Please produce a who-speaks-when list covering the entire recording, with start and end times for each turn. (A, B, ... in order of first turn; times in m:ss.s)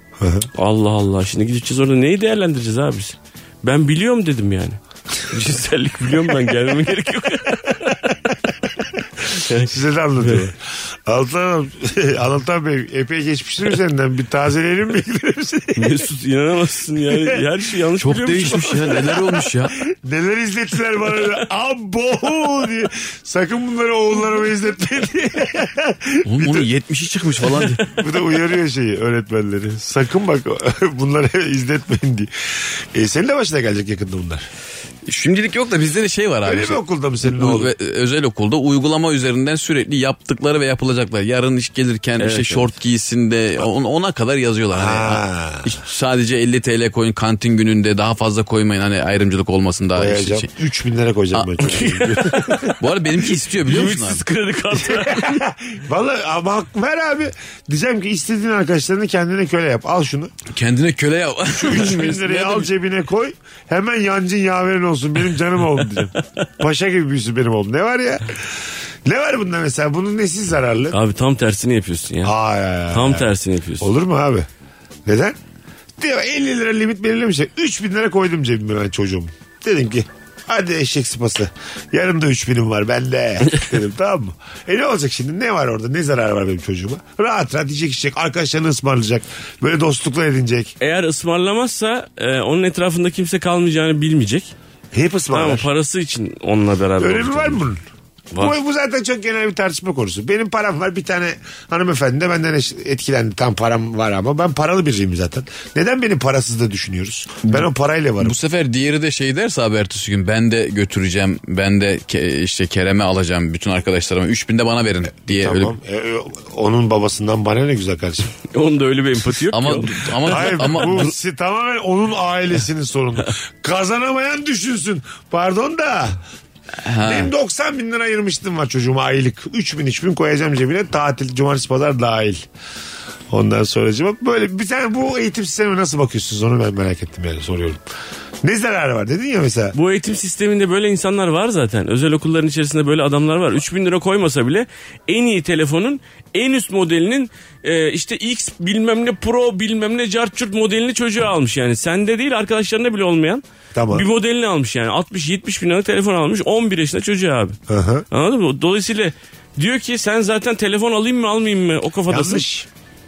0:00.2-0:00.5 A
0:00.6-0:08.0 B
0:09.3-0:10.4 B
0:09.5-0:16.0 A
0:15.8-0:18.8 B
0:17.1-0:17.4 A
0:18.0-0:19.8 C
0:18.4-0:26.7 A
0:26.2-0:27.9 C
0:27.8-0:34.5 A
0:35.0-0:50.5 C
0:36.4-0:37.7 A
0:42.2-0:42.7 B
0:44.7-0:45.7 A
0:50.0-0:52.7 A
0:51.3-0:51.6 C
0:51.6-0:55.4 B
0:52.8-0:54.2 C
0:54.7-1:00.3 A
1:00.5-1:02.7 C
1:01.5-1:08.4 A
1:09.0-1:11.0 A
1:10.9-1:12.3 B
1:12.2-1:13.3 A
1:12.9-1:13.9 B
1:13.8-1:14.5 A
1:15.0-1:15.4 A
1:16.0-1:30.7 A
1:30.8-1:34.5 B
1:34.9-1:35.7 A
1:35.3-1:37.6 B
1:37.0-1:37.8 A
1:38.4-1:48.4 A
1:48.2-1:55.8 C
1:55.3-1:58.3 A
1:58.5-2:00.9 B
1:59.5-2:01.1 C
2:00.2-2:06.2 A
2:06.8-2:07.3 C
2:07.0-2:12.4 A
2:13.3-2:17.8 A
2:18.4-2:19.7 A
2:19.7-2:37.6 B
2:33.7-2:34.1 A
2:37.7-2:38.0 A
2:38.1-2:42.4 B
2:42.1-2:42.7 A